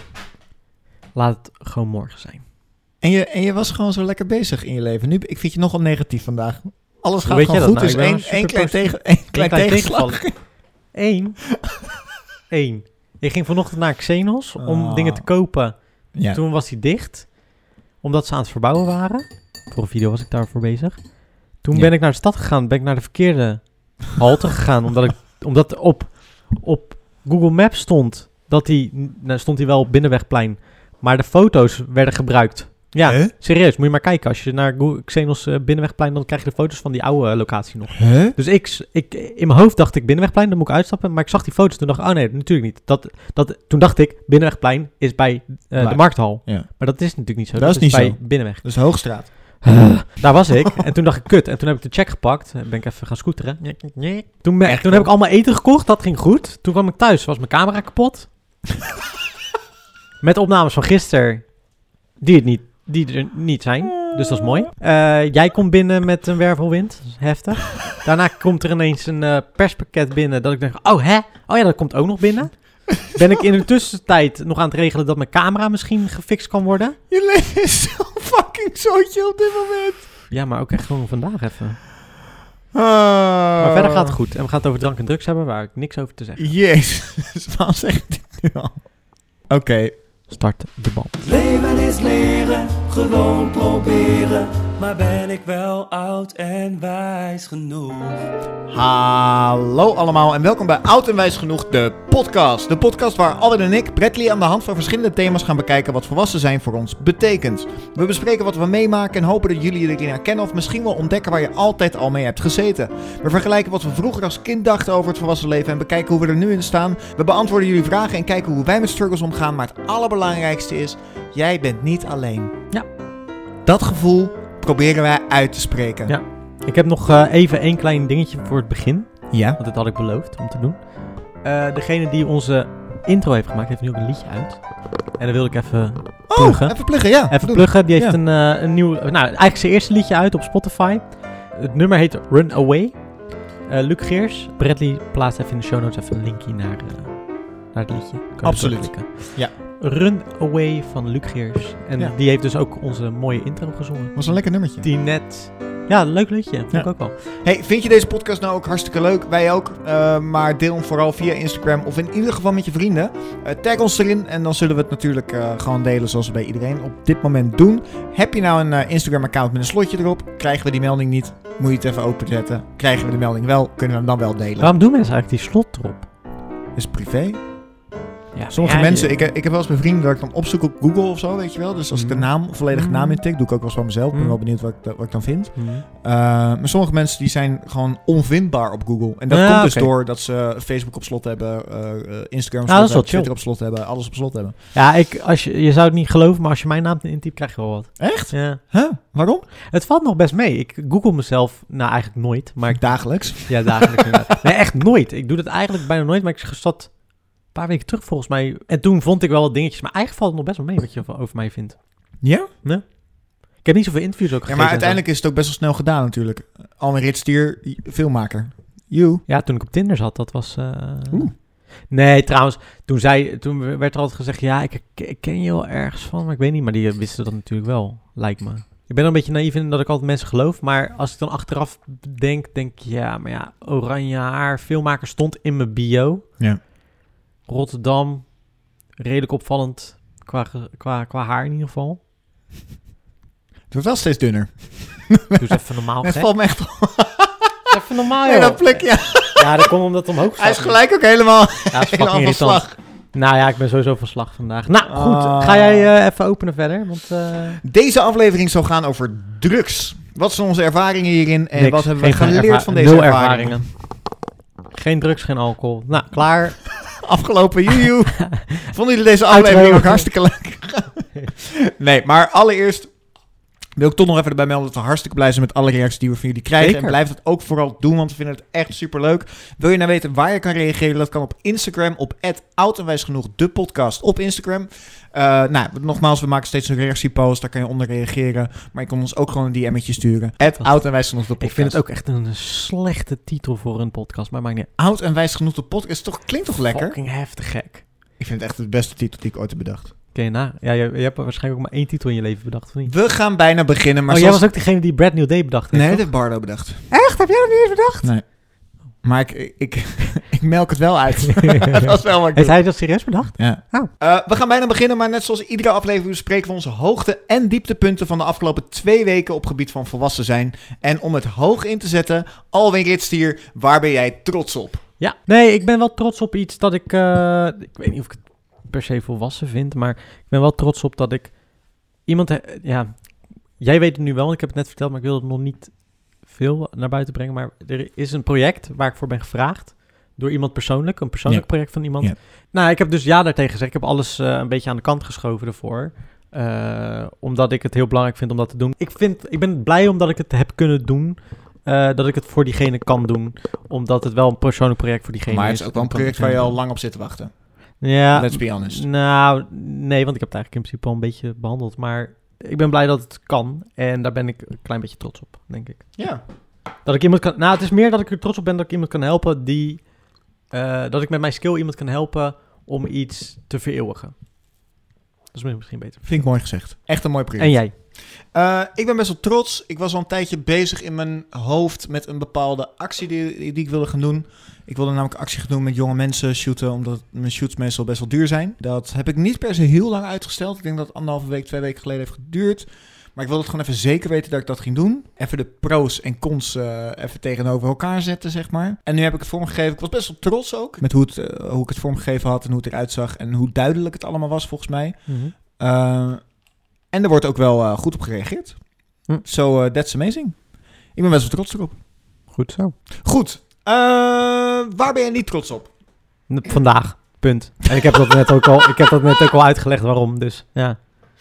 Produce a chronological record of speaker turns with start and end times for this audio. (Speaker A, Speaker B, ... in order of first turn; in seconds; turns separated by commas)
Speaker A: 1.1-2.4, Speaker B: 3.0-10.4, Speaker A: 7.2-11.4, Speaker A: 12.5-17.4, Speaker B: 14.6-15.3, Speaker B: 16.1-16.4, Speaker A: 18.0-58.3, Speaker B: 33.0-33.3, Speaker B: 38.0-38.4, Speaker B: 45.8-46.9, Speaker B: 47.5-49.7, Speaker B: 54.6-55.1, Speaker A: 60.2-77.0, Speaker B: 77.1-80.1, Speaker A: 80.3-81.8, Speaker B: 82.7-84.1, Speaker A: 83.6-86.5, Speaker B: 86.4-90.0, Speaker A: 90.3-91.2, Speaker C: 91.2-98.3, Speaker B: 98.7-122.5, Speaker B: 123.6-126.1, Speaker A: 126.1-157.1, Speaker B: 129.3-129.6, Speaker B: 136.3-138.2, Speaker B: 148.4-149.5, Speaker B: 154.1-154.8, Speaker B: 156.7-174.7, Speaker A: 174.6-176.1, Speaker B: 176.7-177.6, Speaker A: 178.3-179.2, Speaker B: 178.5-194.5, Speaker A: 181.9-183.2, Speaker A: 184.1-184.4, Speaker A: 185.6-185.8, Speaker A: 189.3-189.9, Speaker A: 192.7-193.3, Speaker A: 194.7-198.6, Speaker B: 198.0-199.5, Speaker A: 199.7-215.0, Speaker B: 202.8-204.1, Speaker B: 212.2-212.5, Speaker B: 214.5-219.2, Speaker A: 219.3-236.3, Speaker A: 237.4-238.4, Speaker A: 238.9-242.0, Speaker B: 243.7-245.4, Speaker A: 245.3-246.3, Speaker B: 246.0-247.5, Speaker A: 247.7-250.9, Speaker B: 248.1-249.7, Speaker B: 250.3-252.8, Speaker A: 251.7-257.6, Speaker B: 254.8-255.9, Speaker B: 257.6-263.7, Speaker A: 261.5-264.1, Speaker A: 264.7-266.9, Speaker B: 267.0-273.1, Speaker A: 269.3-270.1, Speaker B: 273.8-291.8, Speaker A: 276.6-276.9, Speaker A: 290.5-294.7, Speaker B: 294.8-297.0, Speaker A: 296.7-297.8, Speaker B: 298.2-299.9, Speaker A: 300.1-303.0, Speaker B: 302.9-304.5, Speaker A: 304.1-306.1, Speaker B: 305.7-306.9, Speaker A: 306.9-308.1, Speaker B: 308.0-324.8, Speaker A: 311.7-313.9, Speaker A: 325.0-356.6, Speaker B: 341.2-342.1, Speaker B: 355.3-358.8, Speaker A: 357.8-366.1, Speaker B: 366.0-366.2, Speaker A: 366.8-374.1, Speaker A: 375.3-376.4, Speaker B: 376.0-406.4, Speaker A: 377.4-377.7, Speaker A: 405.1-405.3, Speaker B: 406.9-411.8, Speaker A: 412.3-412.8, Speaker B: 413.0-415.7, Speaker A: 416.3-420.8